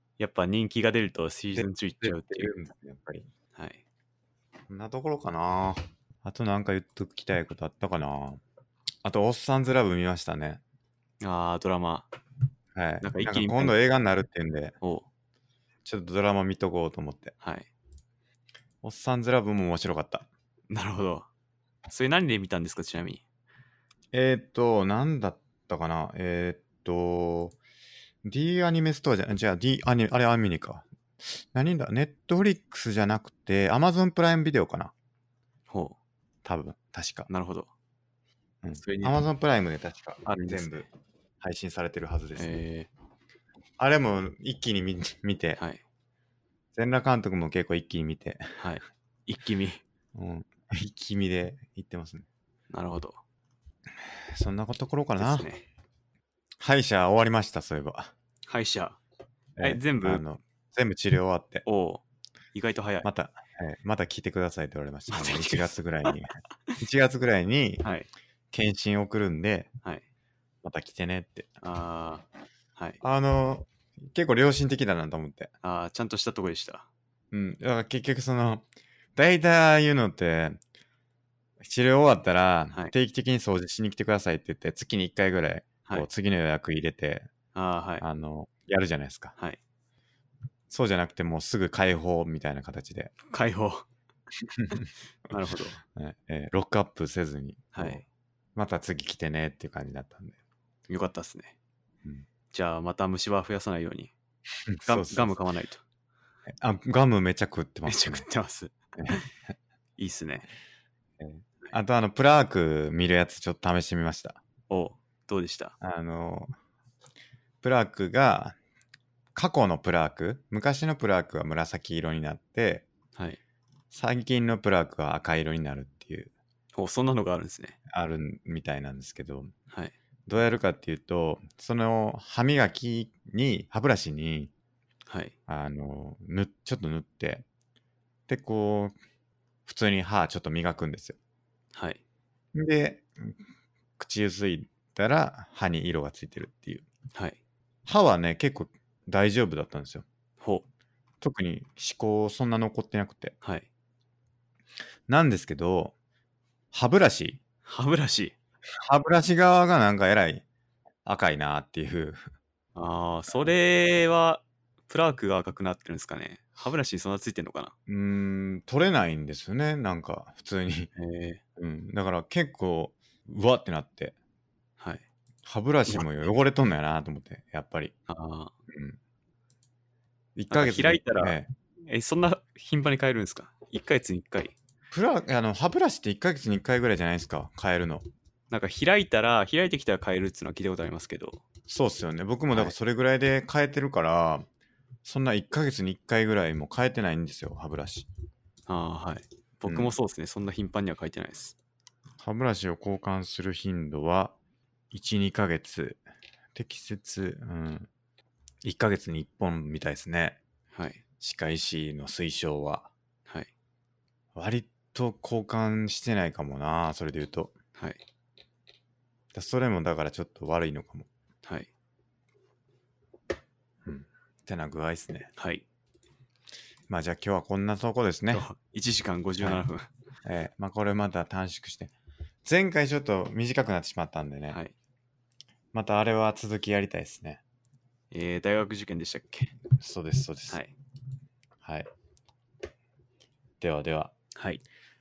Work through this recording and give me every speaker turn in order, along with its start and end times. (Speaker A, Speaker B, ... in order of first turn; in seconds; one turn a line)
Speaker A: 0.2-2.5
Speaker B: 1.5-3.3
Speaker A: 3.5-3.8
Speaker B: 4.7-8.4
Speaker B: 9.0-10.6
Speaker A: 11.2-12.1
Speaker B: 12.7-14.7
Speaker A: 13.0-13.8
Speaker B: 15.8-17.3
Speaker A: 17.4-17.7
Speaker B: 18.8-20.3
Speaker A: 20.7-21.3
Speaker A: 21.9-23.2
Speaker B: 24.1-27.6
Speaker B: 28.2-34.9
Speaker A: 35.7-36.0
Speaker B: 36.4-37.3
Speaker A: 37.3-37.7
Speaker B: 38.6-40.9
Speaker A: 38.8-39.1
Speaker A: 40.2-40.8
Speaker B: 41.4-42.5
Speaker A: 42.4-42.9
Speaker B: 43.8-45.6
Speaker A: 45.6-45.8
Speaker B: 46.7-48.6
Speaker A: 48.6-49.8
Speaker B: 50.1-52.2
Speaker A: 52.7-53.2
Speaker B: 54.3-55.5
Speaker A: 55.2-55.6
Speaker B: 56.6-58.1
Speaker A: 58.5-59.0
Speaker B: 59.6-61.6
Speaker A: 59.6-60.2
Speaker A: 61.6-62.0
Speaker A: 62.5-63.1
Speaker B: 63.0-67.8
Speaker A: 65.1-65.7
Speaker A: 67.8-68.1
Speaker B: 68.5-69.7
Speaker B: 70.6-71.5
Speaker A: 71.6-72.2
Speaker B: 73.0-75.5
Speaker A: 75.6-76.9
Speaker B: 77.3-78.6
Speaker B: 79.2-80.6
Speaker B: 81.6-87.3
Speaker A: 87.5-88.0
Speaker B: 88.0-89.3
Speaker B: 90.7-93.2
Speaker A: 93.3-93.9
Speaker B: 94.5-94.9
Speaker A: 95.3-95.8
Speaker B: 95.9-98.0
Speaker A: 97.7-98.0
Speaker B: 98.5-100.3
Speaker A: 100.9-101.5
Speaker A: 102.5-104.1
Speaker B: 104.7-105.3
Speaker A: 104.8-105.8
Speaker B: 106.6-108.2
Speaker A: 107.8-109.3
Speaker B: 109.0-109.2
Speaker A: 110.0-110.5
Speaker B: 111.2-114.4
Speaker A: 114.7-115.7
Speaker B: 115.8-116.5
Speaker B: 117.6-118.5
Speaker B: 119.3-122.8
Speaker A: 123.1-123.4
Speaker B: 123.9-126.3
Speaker A: 126.7-127.8
Speaker B: 127.9-129.5
Speaker B: 130.3-134.5
Speaker A: 135.1-135.3
Speaker B: 135.5-137.4
Speaker B: 138.3-138.9
Speaker B: 139.7-141.2
Speaker A: 141.7-142.0
Speaker B: 142.5-143.4
Speaker B: 144.0-146.8
Speaker A: 147.1-147.4
Speaker B: 147.8-150.0
Speaker A: 150.4-150.6
Speaker B: 151.2-153.3
Speaker B: 155.1-155.9
Speaker B: 156.7-157.4
Speaker A: 157.6-158.3
Speaker B: 158.8-160.4
Speaker B: 161.0-162.2
Speaker A: 162.7-167.7
Speaker B: 167.9-170.9
Speaker A: 170.9-171.4
Speaker B: 171.6-174.1
Speaker A: 174.8-175.0
Speaker B: 175.4-177.9
Speaker A: 175.9-176.2
Speaker A: 178.1-178.5
Speaker B: 178.7-179.0
Speaker B: 180.3-181.5
Speaker A: 180.5-184.5
Speaker B: 184.9-188.1
Speaker A: 188.5-191.4
Speaker B: 191.7-194.4
Speaker B: 195.0-198.1
Speaker A: 198.7-201.5
Speaker B: 199.7-199.9
Speaker B: 202.2-204.3
Speaker B: 204.9-206.0
Speaker B: 206.5-207.9
Speaker B: 208.6-210.4
Speaker A: 210.7-211.0
Speaker B: 211.2-212.9
Speaker B: 214.3-217.5
Speaker A: 217.8-218.0
Speaker B: 219.3-221.1
Speaker A: 221.4-221.7
Speaker B: 223.8-225.3
Speaker A: 225.4-225.6
Speaker B: 226.9-228.4
Speaker A: 228.3-229.9
Speaker B: 230.2-231.9
Speaker B: 232.4-234.6
Speaker B: 235.7-237.4
Speaker A: 238.1-239.5
Speaker B: 239.8-240.6
Speaker B: 241.6-241.9
Speaker B: 243.6-244.1
Speaker A: 244.3-244.6